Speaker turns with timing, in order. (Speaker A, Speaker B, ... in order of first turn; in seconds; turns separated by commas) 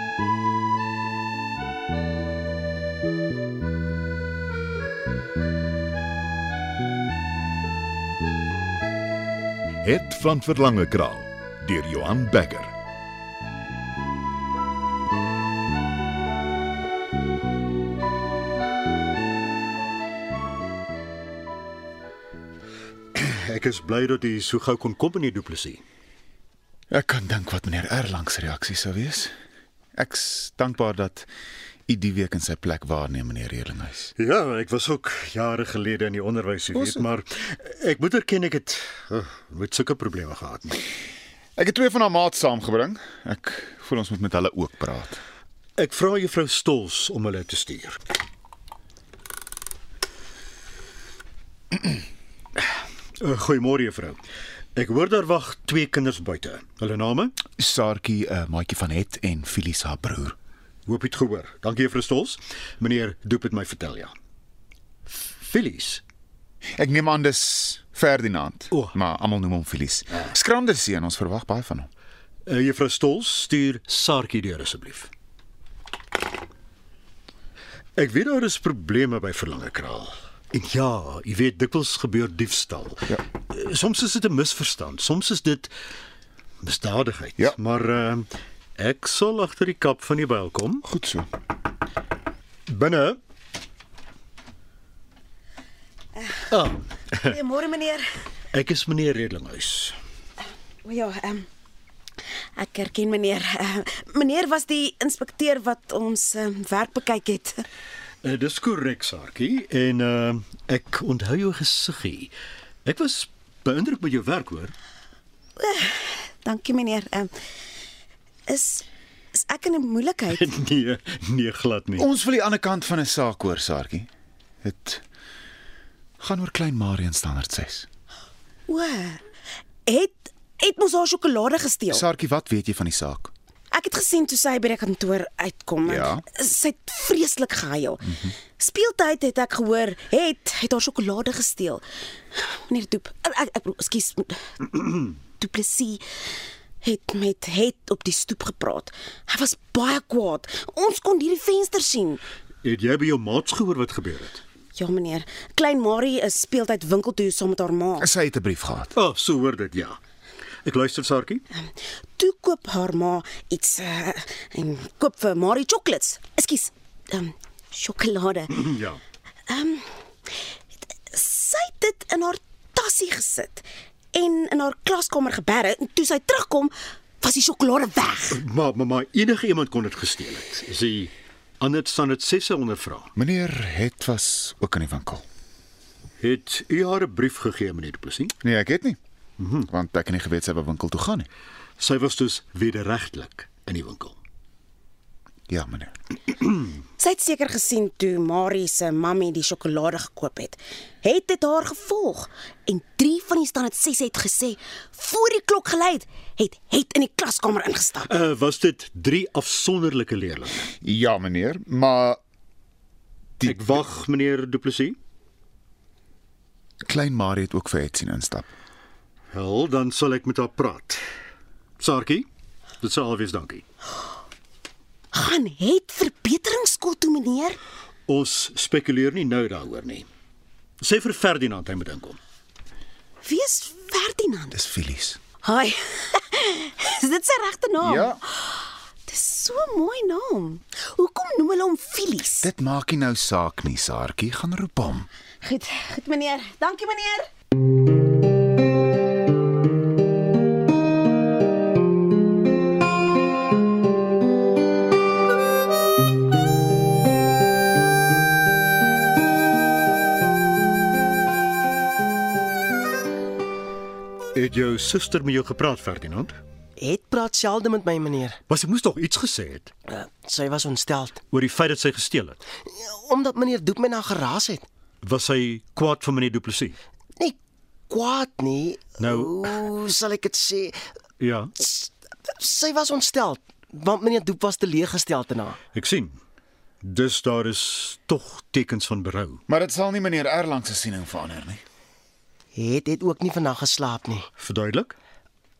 Speaker A: 9.8-12.7, Speaker B: 23.1-25.8, Speaker C: 26.9-29.3, Speaker C: 29.9-31.3, Speaker C: 31.9-34.1, Speaker B: 34.2-40.8, Speaker C: 36.7-37.1, Speaker C: 41.6-45.2, Speaker B: 45.8-48.0, Speaker B: 53.2-54.2, Speaker B: 54.7-57.4, Speaker C: 57.6-60.4, Speaker B: 60.9-64.1, Speaker B: 65.4-66.0, Speaker C: 66.8-71.9, Speaker B: 72.5-75.1, Speaker B: 78.0-85.7, Speaker B: 86.6-90.8, Speaker C: 90.8-91.3, Speaker B: 92.7-93.2, Speaker B: 96.5-97.4, Speaker D: 97.2-98.0, Speaker B: 98.5-100.0, Speaker D: 100.8-101.5, Speaker D: 102.5-107.7, Speaker B: 108.2-112.3, Speaker B: 112.8-114.7, Speaker D: 115.6-117.3, Speaker D: 118.5-120.5, Speaker B: 120.3-122.1, Speaker C: 122.0-124.1, Speaker C: 124.6-125.0, Speaker C: 126.2-127.9, Speaker D: 128.7-129.2, Speaker D: 129.8-132.0, Speaker C: 131.9-133.3, Speaker D: 133.7-146.0, Speaker C: 135.8-136.2, Speaker C: 138.0-138.3, Speaker D: 146.8-152.2, Speaker B: 152.6-154.4, Speaker D: 154.7-158.1, Speaker C: 158.0-158.9, Speaker B: 158.9-160.0, Speaker B: 160.6-161.4, Speaker D: 161.5-168.8, Speaker B: 168.5-169.0, Speaker D: 169.5-170.4, Speaker D: 171.1-178.4, Speaker B: 178.3-183.1, Speaker C: 183.2-185.2, Speaker B: 186.2-188.3, Speaker C: 188.4-189.0, Speaker B: 189.4-189.7, Speaker C: 189.7-191.3, Speaker B: 191.8-194.2, Speaker C: 195.5-195.9, Speaker D: 197.0-208.1, Speaker B: 208.1-210.7, Speaker C: 210.8-212.2, Speaker C: 213.4-213.6, Speaker B: 213.4-215.0, Speaker C: 216.8-218.5, Speaker B: 219.3-221.0, Speaker B: 221.8-222.3, Speaker B: 222.8-223.6, Speaker D: 225.1-227.6, Speaker B: 228.1-230.1, Speaker B: 230.8-232.2, Speaker D: 233.2-234.5, Speaker C: 234.5-235.2, Speaker D: 235.4-242.4, Speaker C: 237.8-238.2, Speaker C: 242.4-245.1, Speaker D: 245.4-247.3, Speaker B: 264.3-266.4, Speaker E: 266.8-268.4, Speaker B: 268.5-269.7, Speaker E: 269.9-271.2, Speaker B: 271.3-272.4, Speaker E: 272.6-274.6, Speaker B: 275.0-276.8, Speaker E: 277.9-280.8, Speaker B: 279.0-279.6, Speaker B: 281.2-281.5, Speaker E: 281.6-285.6, Speaker B: 285.7-286.2, Speaker B: 286.8-289.4, Speaker C: 289.5-291.6, Speaker E: 292.5-294.2, Speaker B: 294.4-294.9